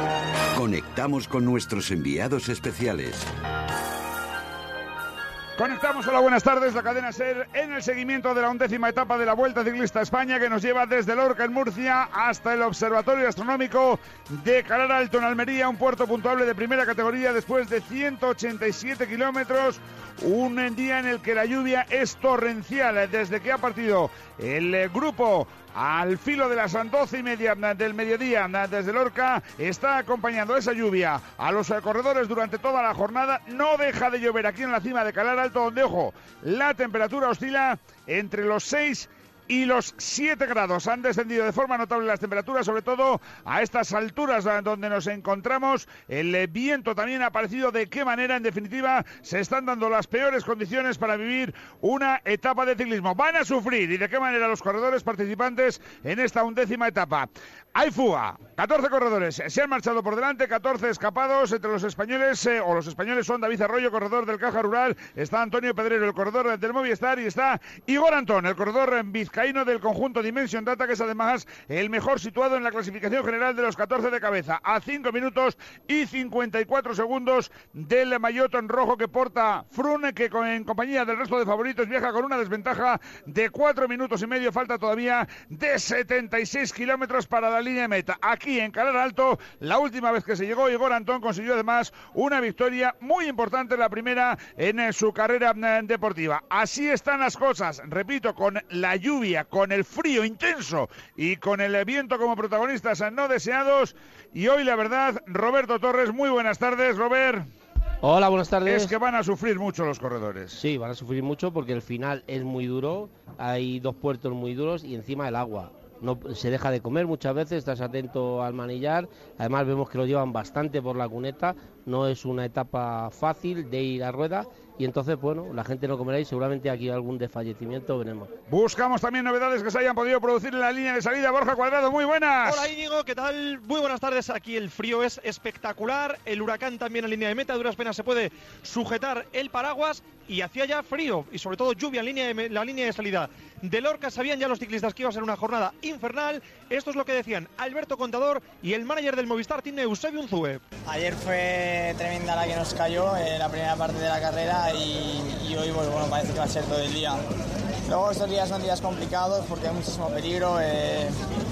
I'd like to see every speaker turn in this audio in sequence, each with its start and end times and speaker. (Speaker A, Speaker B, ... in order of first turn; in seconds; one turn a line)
Speaker A: 0.6-3.3
Speaker B: 5.6-107.5
Speaker C: 108.0-109.0
Speaker B: 108.7-110.6
Speaker C: 110.6-128.3
Speaker B: 128.5-132.7
Speaker D: 132.5-150.6
Speaker E: 150.9-157.2
Speaker E: 157.9-161.2